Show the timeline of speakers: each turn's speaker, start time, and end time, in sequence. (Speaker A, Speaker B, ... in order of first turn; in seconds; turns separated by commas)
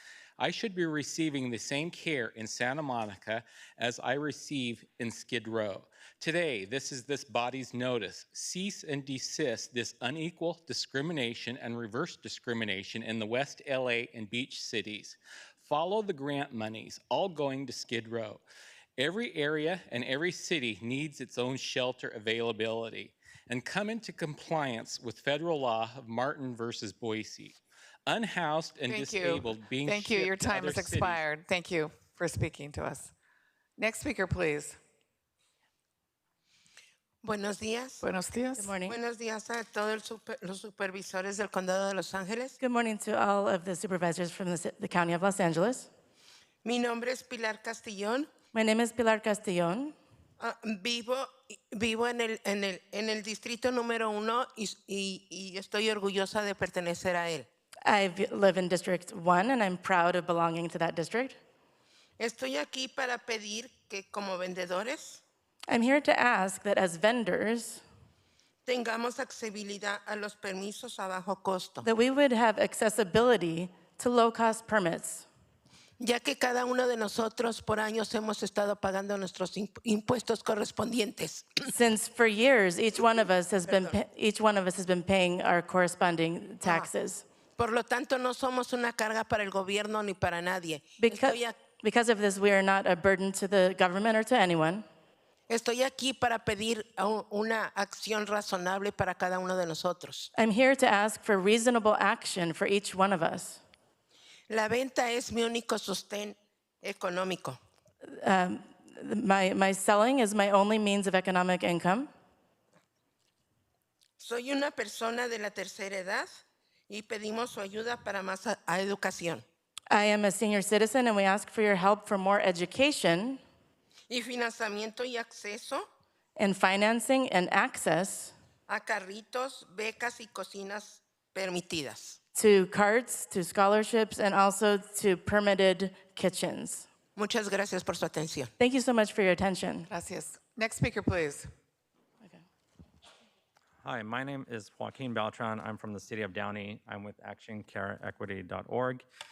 Speaker A: 0.4-18.4, Speaker A: 19.0-31.2, Speaker B: 28.9-33.1, Speaker B: 33.8-34.8, Speaker C: 37.2-38.0, Speaker B: 38.0-38.8, Speaker D: 38.5-39.0, Speaker C: 38.8-42.6, Speaker D: 42.6-45.9, Speaker C: 46.6-48.3, Speaker D: 48.5-49.9, Speaker C: 50.4-57.5, Speaker D: 57.9-61.4, Speaker C: 62.2-65.2, Speaker D: 65.7-67.8, Speaker C: 68.7-71.8, Speaker D: 71.8-75.2, Speaker C: 76.0-81.5, Speaker D: 81.7-87.2, Speaker C: 86.6-86.9, Speaker C: 87.6-91.5, Speaker D: 91.0-94.8, Speaker C: 95.5-100.3, Speaker D: 100.3-103.6, Speaker C: 104.5-107.6, Speaker D: 108.1-112.1, Speaker C: 114.2-119.4, Speaker D: 119.9-123.4, Speaker C: 124.1-125.8, Speaker D: 126.4-128.3, Speaker C: 128.7-132.2, Speaker D: 132.3-136.9, Speaker C: 137.2-138.5, Speaker D: 138.6-139.9, Speaker B: 139.9-141.5, Speaker E: 143.8-149.0